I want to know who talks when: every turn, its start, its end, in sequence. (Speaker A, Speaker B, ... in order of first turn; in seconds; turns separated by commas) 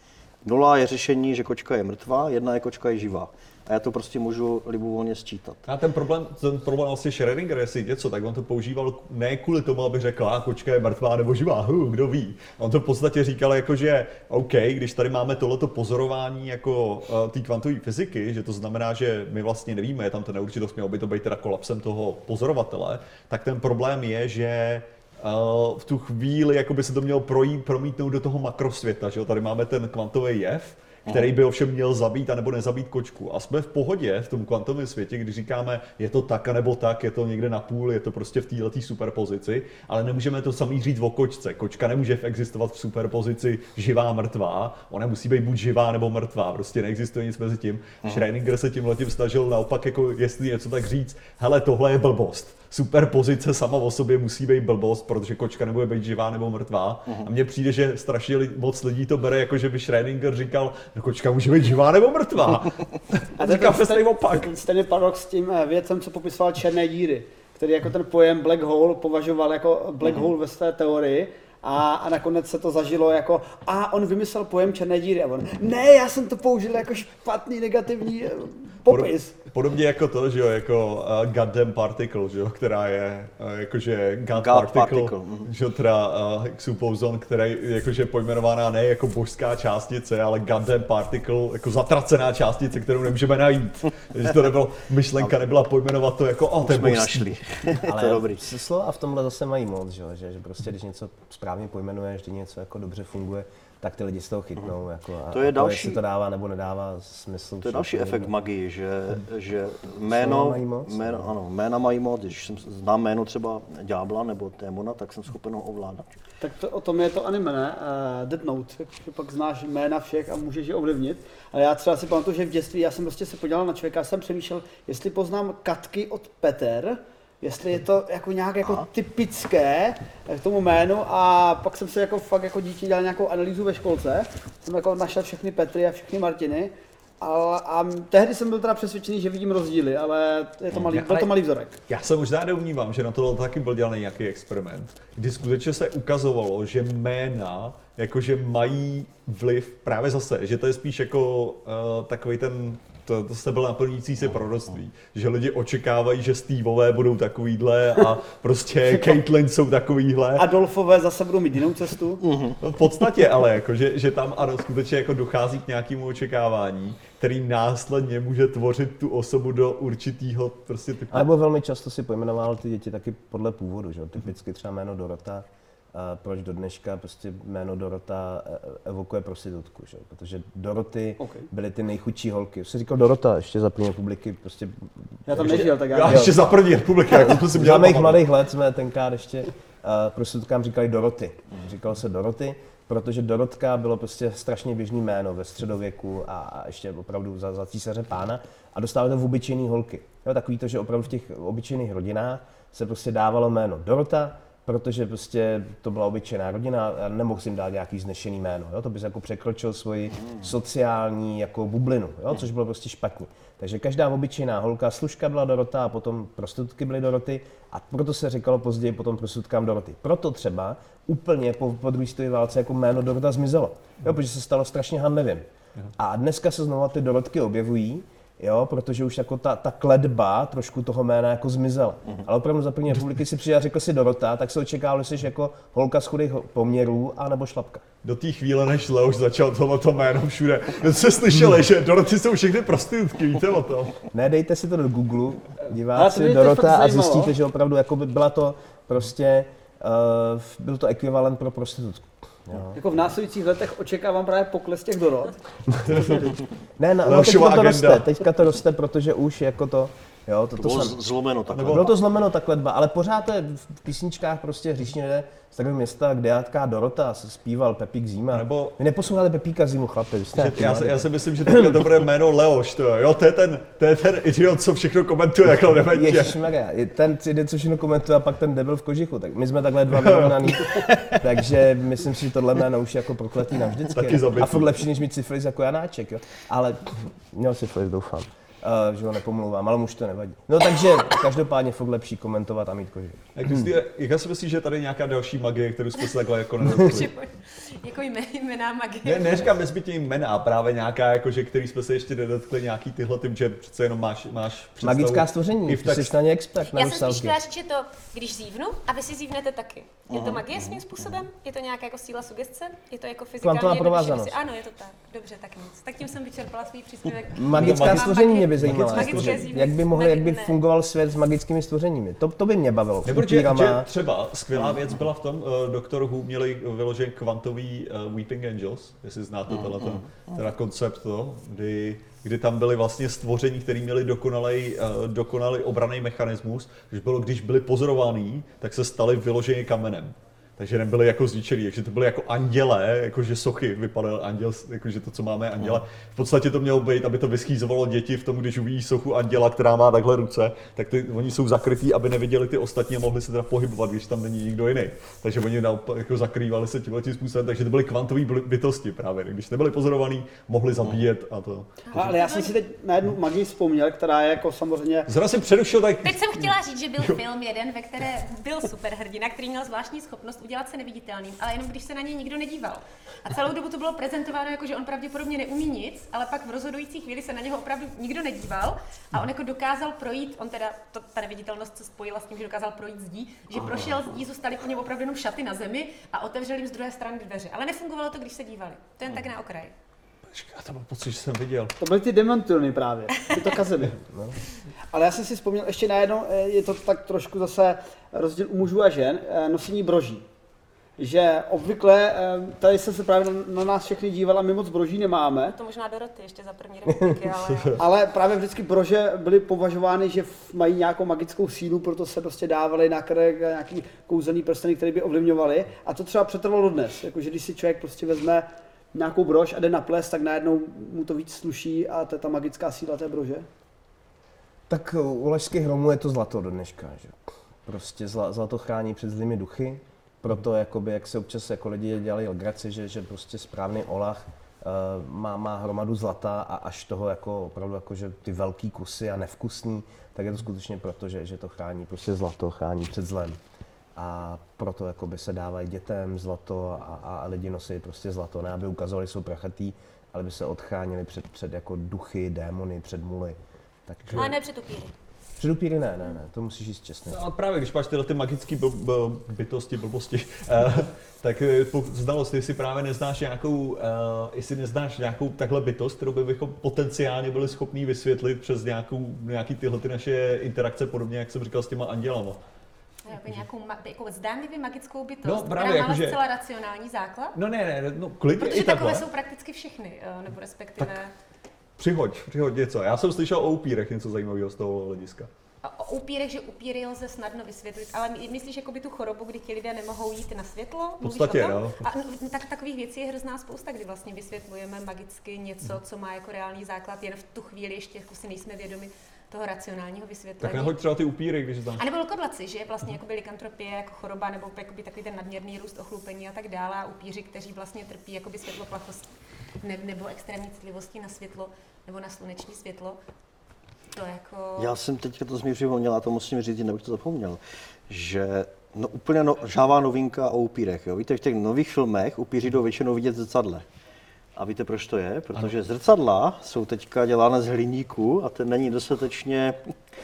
Speaker A: 0.4-5.6, Speaker B: 5.7-64.5, Speaker C: 63.4-79.3, Speaker B: 78.9-97.3, Speaker A: 84.3-85.5, Speaker A: 96.6-98.4, Speaker D: 97.8-108.3, Speaker A: 105.3-106.0, Speaker A: 107.6-116.2, Speaker D: 110.1-111.3, Speaker C: 116.4-141.8, Speaker B: 140.7-141.3, Speaker B: 141.9-160.4, Speaker C: 158.9-159.2, Speaker C: 160.3-162.2, Speaker A: 162.2-162.6, Speaker B: 162.6-171.3, Speaker D: 171.1-185.3, Speaker C: 181.2-181.5, Speaker C: 185.3-186.3, Speaker B: 185.4-188.3, Speaker D: 186.1-186.3, Speaker D: 187.1-225.4, Speaker D: 226.0-237.8, Speaker B: 238.0-243.9, Speaker D: 244.1-252.8, Speaker C: 245.9-247.3, Speaker C: 252.7-255.3, Speaker B: 255.8-256.3, Speaker D: 256.8-261.0, Speaker B: 257.0-258.1, Speaker A: 260.6-261.9, Speaker B: 261.5-261.9, Speaker D: 261.6-271.9, Speaker B: 268.3-268.8, Speaker B: 270.3-276.4, Speaker D: 275.9-293.5, Speaker B: 280.0-280.9, Speaker B: 283.9-284.7, Speaker B: 293.4-297.1, Speaker E: 296.6-299.5, Speaker D: 296.6-297.0, Speaker B: 299.0-306.1, Speaker D: 304.8-307.4, Speaker E: 306.7-320.6, Speaker A: 310.1-311.2, Speaker D: 313.4-314.4, Speaker D: 317.3-323.9, Speaker B: 317.5-319.5, Speaker B: 323.0-362.0, Speaker A: 324.5-324.9, Speaker A: 329.5-330.4, Speaker C: 361.9-365.1, Speaker E: 362.0-362.5, Speaker B: 365.1-367.2, Speaker E: 366.0-389.7, Speaker B: 390.3-391.7, Speaker C: 391.8-394.0, Speaker D: 394.0-394.4, Speaker C: 394.9-400.2, Speaker C: 401.0-405.6, Speaker E: 405.5-407.8, Speaker B: 407.5-407.8, Speaker C: 407.8-423.4, Speaker D: 424.7-443.4, Speaker D: 443.9-453.4, Speaker D: 453.9-454.4, Speaker E: 454.1-454.9, Speaker D: 455.4-457.2, Speaker B: 457.1-472.4, Speaker E: 473.1-477.4, Speaker B: 475.2-476.2, Speaker B: 477.3-479.1, Speaker E: 478.4-481.1, Speaker B: 481.8-485.3, Speaker E: 485.6-500.8, Speaker B: 491.0-491.9, Speaker B: 500.4-501.8, Speaker E: 501.8-509.1, Speaker E: 509.6-513.0, Speaker E: 513.9-514.7, Speaker A: 514.6-523.6, Speaker A: 524.4-529.6